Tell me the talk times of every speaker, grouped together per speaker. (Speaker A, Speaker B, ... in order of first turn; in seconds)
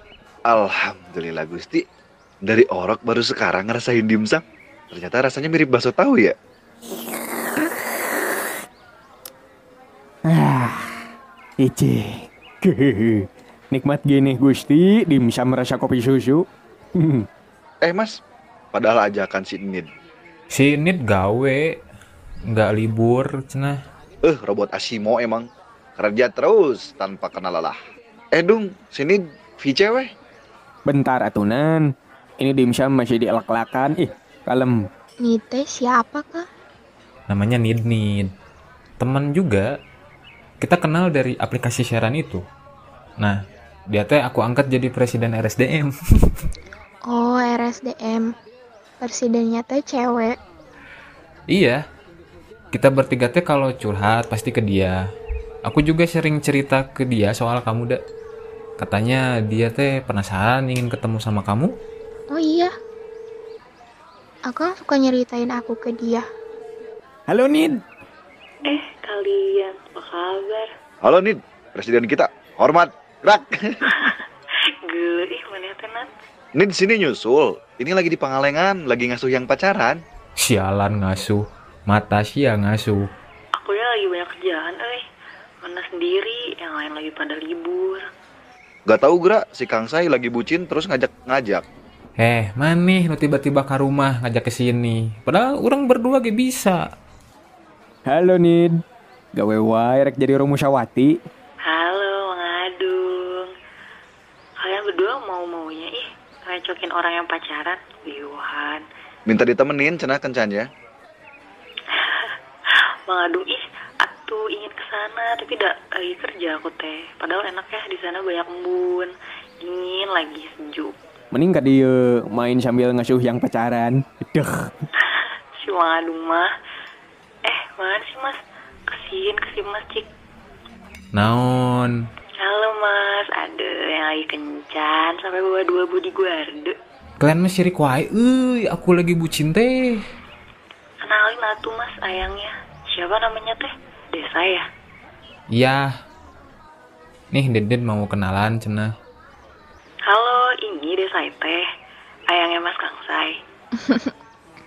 Speaker A: 0.5-1.8, 2.4-6.3, 17.8-18.2, 18.7-19.9, 24.2-27.8, 28.3-30.1, 71.0-74.0, 76.5-80.0, 88.9-91.6, 109.2-110.7
Speaker B: 10.2-11.0, 11.6-17.3, 30.9-34.9, 67.3-67.8, 98.0-98.8, 99.3-101.2, 121.3-124.8
Speaker C: 20.5-21.8, 22.5-23.8, 37.3-38.3, 39.0-39.6, 40.6-42.4, 43.9-46.3, 51.5-51.8, 52.7-55.0, 55.6-58.0, 58.8-61.7, 80.4-83.1, 92.2-96.8, 131.1-131.9, 137.2-140.0, 145.5-145.9, 147.3-148.9
Speaker D: 35.2-36.5, 47.1-48.3, 49.0-50.4, 62.3-62.7, 64.5-66.2, 153.8-154.1
Speaker E: 68.7-70.7, 74.9-76.1, 83.6-85.0, 85.6-88.0, 101.6-103.5, 104.6-108.8, 111.9-112.3, 113.1-119.1, 119.6-121.0, 125.6-126.5, 127.4-128.4, 128.9-130.1, 132.4-136.8, 141.0-144.7, 150.1-151.6, 152.3-153.3